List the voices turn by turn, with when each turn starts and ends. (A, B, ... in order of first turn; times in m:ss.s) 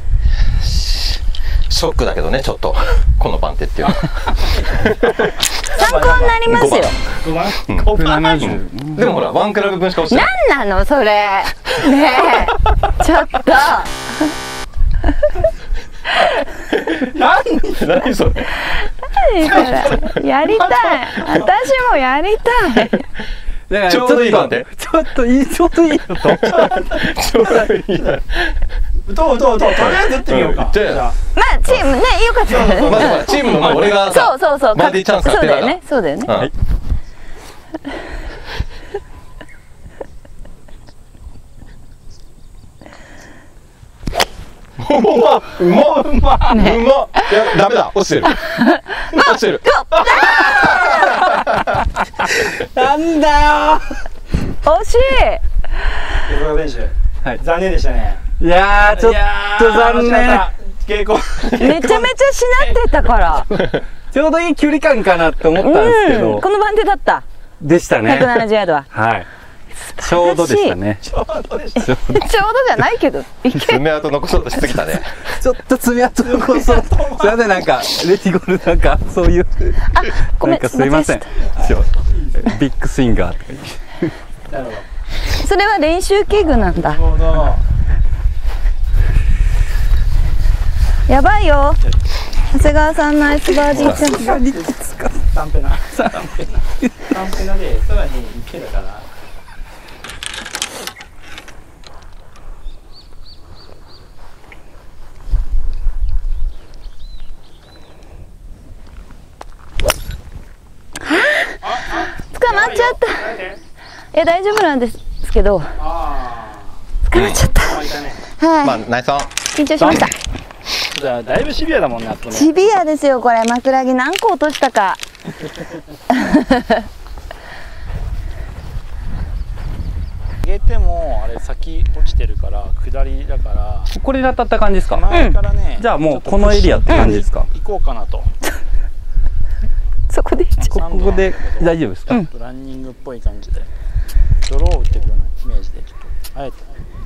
0:00.4-0:05.4 A
0:04.4-0:05.0 B
0:05.5-0:06.4 B
0:05.7-0:07.0 C
0:06.5-0:07.0 A
0:07.2-0:08.5 B
0:07.7-0:10.3 A
0:07.8-0:09.1 D
0:10.1-0:14.3 C
0:16.4-0:18.6 A
0:17.2-0:17.9 B
0:18.6-0:23.1 C
0:19.4-0:20.2 A
0:20.5-0:21.4 B
0:23.7-0:26.9 D
0:23.9-0:24.7 A
0:26.4-0:28.7 A
0:26.5-0:27.1 B
0:29.0-0:31.2 B
0:29.7-0:31.1 A
0:31.4-0:36.3 C
0:31.7-0:32.0 A
0:32.5-0:33.9 B
0:32.7-0:36.5 A
0:44.8-0:51.6 A
0:45.6-0:46.6 B
0:46.5-0:47.3 C
0:48.6-0:51.0 C
0:50.2-0:51.2 B
0:52.3-0:54.0 D
0:54.6-0:55.4 C
0:56.2-0:58.2 B
0:58.4-1:00.5 D
0:58.9-1:02.0 B
1:01.5-1:03.5 C
1:03.6-1:06.4 D
1:05.6-1:07.3 C
1:07.6-1:09.3 D
1:08.0-1:08.9 C
1:09.8-1:10.8 C
1:10.0-1:11.1 D
1:11.0-1:11.9 B
1:11.8-1:12.2 D
1:12.0-1:13.9 C
1:13.5-1:15.3 A
1:15.2-1:24.1 D
1:16.2-1:17.4 B
1:19.9-1:21.3 C
1:21.6-1:22.5 B
1:24.5-1:24.9 B
1:25.3-1:27.0 C
1:26.5-1:27.6 B
1:31.1-1:31.8 C
1:32.5-1:34.4 C
1:33.7-1:34.1 A
1:33.7-1:35.2 D
1:34.2-1:34.7 B
1:35.3-1:39.1 B
1:36.0-1:36.2 D
1:51.1-1:53.4 C
1:51.6-1:53.6 B
1:54.1-1:55.8 C
1:55.8-1:56.8 B
1:57.0-1:58.8 C
1:57.1-1:57.4 A
1:57.5-1:58.2 B
1:58.6-2:00.1 A
1:59.5-2:00.1 C
2:00.9-2:02.5 B
2:02.3-2:05.0 C
2:06.1-2:06.8 C
2:10.4-2:13.9 B
2:13.9-2:15.2 D
2:14.9-2:18.3 B
2:15.1-2:15.4 C
2:15.8-2:17.5 D
2:20.1-2:20.8 C
2:20.7-2:22.2 D
2:20.8-2:23.7 B
2:24.4-2:26.7 B